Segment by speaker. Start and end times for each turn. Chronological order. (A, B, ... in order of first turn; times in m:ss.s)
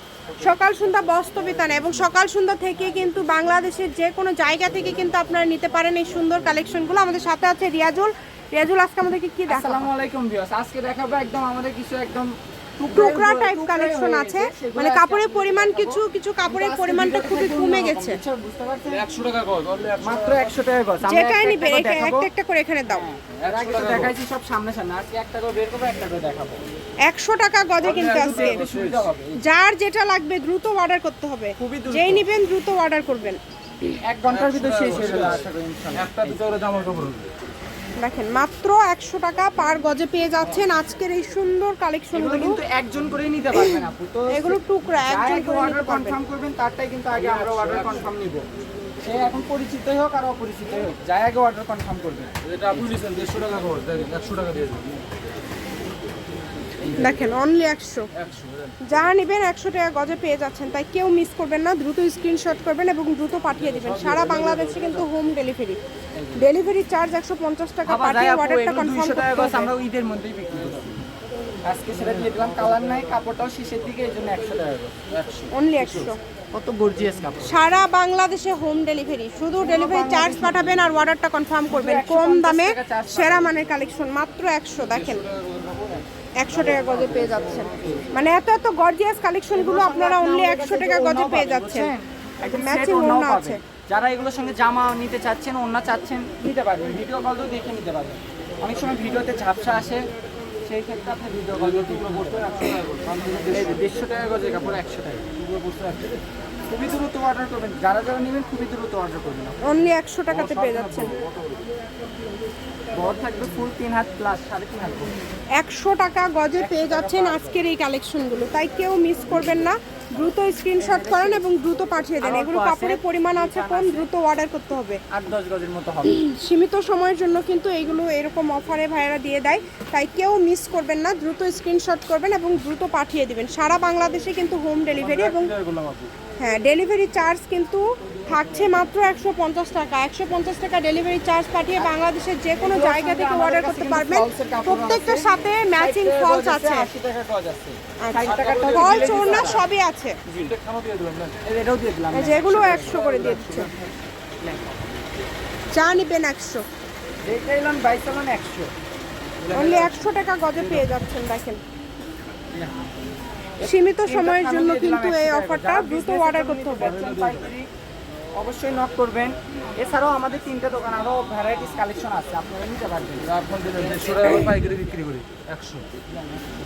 0:00.4-0:09.9 A
0:09.5-0:19.0 B
0:12.9-0:18.2 A
0:18.9-0:20.5 C
0:20.0-0:22.3 B
0:21.0-0:23.1 A
0:22.9-0:26.6 B
0:23.4-0:24.1 C
0:27.1-0:28.6 A
0:27.8-0:29.4 B
0:28.0-0:29.0 C
0:29.4-0:33.4 A
0:31.6-0:32.3 B
0:33.8-0:36.4 B
0:34.3-0:37.3 C
0:38.0-0:42.6 A
0:42.1-0:48.4 B
0:44.3-0:46.2 A
0:47.2-0:47.9 C
0:49.0-0:52.8 B
0:52.4-0:55.0 C
0:56.8-0:57.2 B
0:56.9-0:58.0 A
0:58.9-1:05.8 A
1:03.6-1:05.1 C
1:06.1-1:06.5 B
1:06.3-1:09.7 A
1:07.8-1:11.0 B
1:11.6-1:15.2 B
1:15.5-1:16.2 A
1:16.5-1:17.7 B
1:17.4-1:25.2 A
1:19.6-1:20.9 B
1:21.7-1:23.6 B
1:24.9-1:25.9 C
1:26.0-1:28.1 B
1:26.4-1:31.9 A
1:26.7-1:28.0 C
1:29.5-1:40.0 B
1:32.5-1:33.6 A
1:40.6-1:42.8 B
1:41.6-1:43.8 C
1:43.5-1:45.4 B
1:45.4-1:46.1 C
1:46.7-1:49.6 B
1:49.6-1:51.1 A
1:50.3-1:51.1 B
1:52.9-1:55.1 B
1:55.6-2:05.0 A
1:56.6-1:57.6 B
1:59.3-1:59.6 B
2:00.8-2:01.5 B
2:02.2-2:04.1 B
2:05.1-2:06.2 B
2:06.0-2:15.5 A
2:15.0-2:16.1 C
2:16.4-2:26.9 A
2:22.5-2:29.6 B
2:28.0-2:30.2 A
2:28.3-2:29.5 C
2:30.4-2:31.4 C
2:31.4-2:33.9 B
2:32.1-2:33.7 A
2:32.9-2:33.4 C
2:34.4-2:35.0 B
2:35.7-2:36.6 A
2:37.2-2:38.7 B
2:39.5-2:41.6 A
2:43.6-2:47.7 B
2:43.6-2:46.9 A
2:46.8-2:47.5 C
2:48.3-2:54.4 B
2:53.2-2:55.8 C
2:56.1-2:56.5 B